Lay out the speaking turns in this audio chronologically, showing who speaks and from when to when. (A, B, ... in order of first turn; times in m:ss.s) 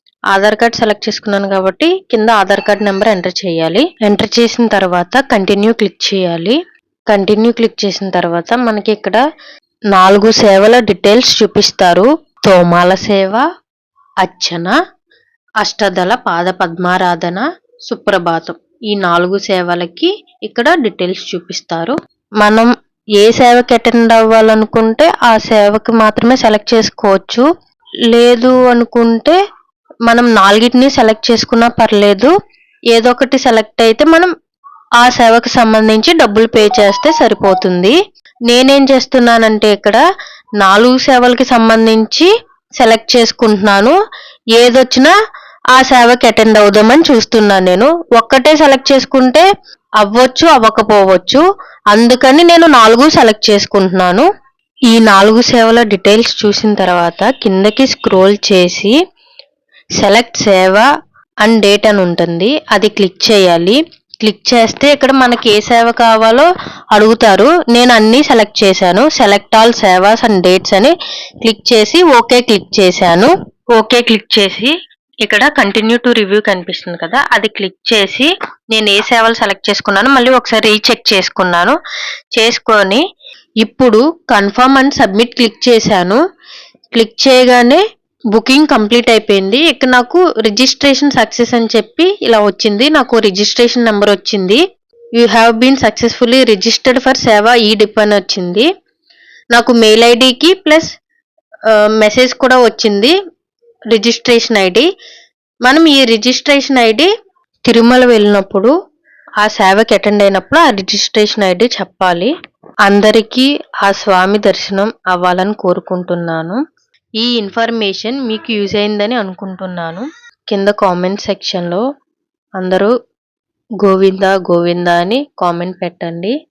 0:00.3-0:06.6 A
0:07.1-0:09.2 A
0:09.9-0:13.4 A
0:14.2-0:14.8 A
0:15.6-0:27.5 A
0:28.1-0:29.4 A
0:30.1-0:32.3 A
0:32.9-0:34.3 A
0:35.0-0:38.0 A
0:38.5-0:40.0 A
0:40.6-0:42.3 A
0:42.8-0:44.0 A
0:44.6-0:45.1 A
0:45.7-0:49.5 A
0:50.0-0:54.3 A
0:54.9-0:59.0 A
1:00.0-1:00.8 A
1:01.4-1:10.9 A
1:11.4-1:14.7 A
1:15.2-1:21.8 A
1:22.4-1:23.0 A
1:23.6-1:26.2 A
1:26.9-1:27.8 A
1:28.3-1:34.6 A
1:35.2-1:38.7 A
1:39.5-1:40.9 A
1:42.0-1:43.1 A
1:43.9-1:44.9 A
1:45.6-1:47.1 A
1:47.7-1:48.7 A
1:49.4-1:52.3 A
1:52.9-1:56.6 A
1:57.2-2:01.8 A
2:02.6-2:02.9 A
2:03.8-2:06.3 A